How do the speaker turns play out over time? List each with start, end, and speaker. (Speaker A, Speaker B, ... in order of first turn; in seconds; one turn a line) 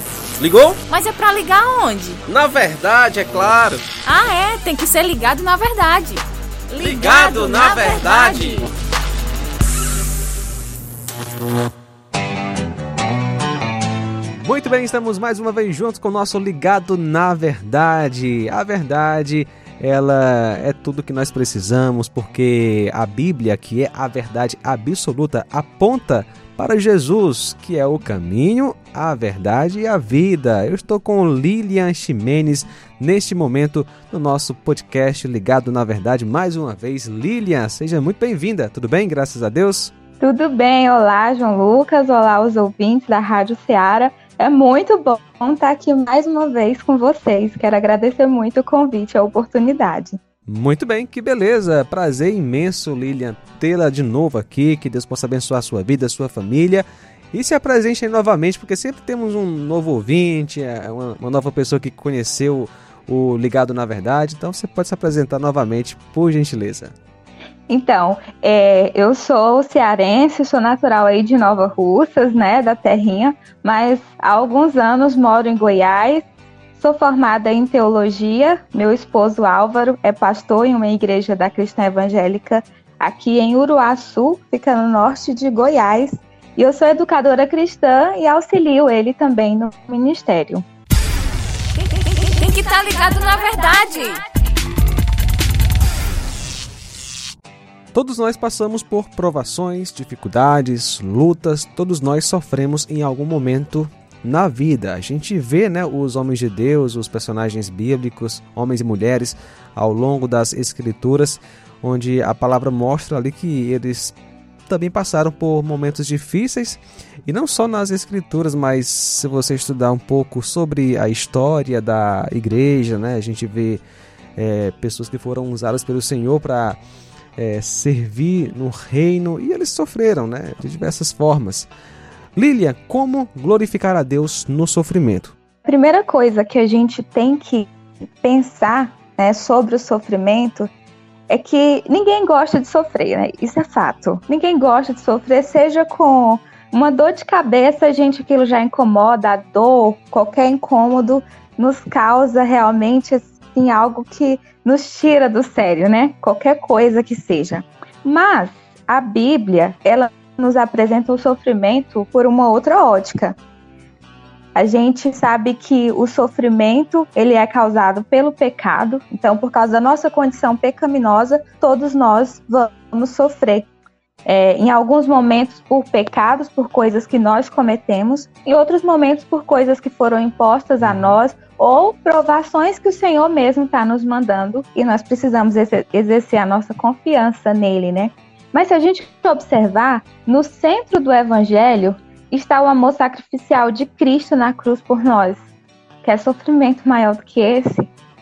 Speaker A: 0.4-0.8
Speaker B: 0.9-2.2
Speaker A: 2.3-3.8
Speaker B: 4.0-8.7
Speaker A: 6.8-8.7
Speaker C: 14.4-39.9
Speaker D: 40.2-50.2
Speaker C: 50.5-66.9
Speaker D: 67.7-90.6
Speaker B: 92.3-94.2
Speaker C: 97.9-114.2
Speaker C: 114.7-123.8
Speaker C: 124.3-126.8
Speaker C: 127.4-131.7
Speaker C: 132.3-135.3
Speaker D: 135.6-137.7
Speaker D: 138.2-140.7
Speaker D: 141.3-163.4
Speaker D: 164.5-173.7
Speaker D: 174.2-195.4
Speaker C: 180.8-181.2
Speaker D: 196.0-197.9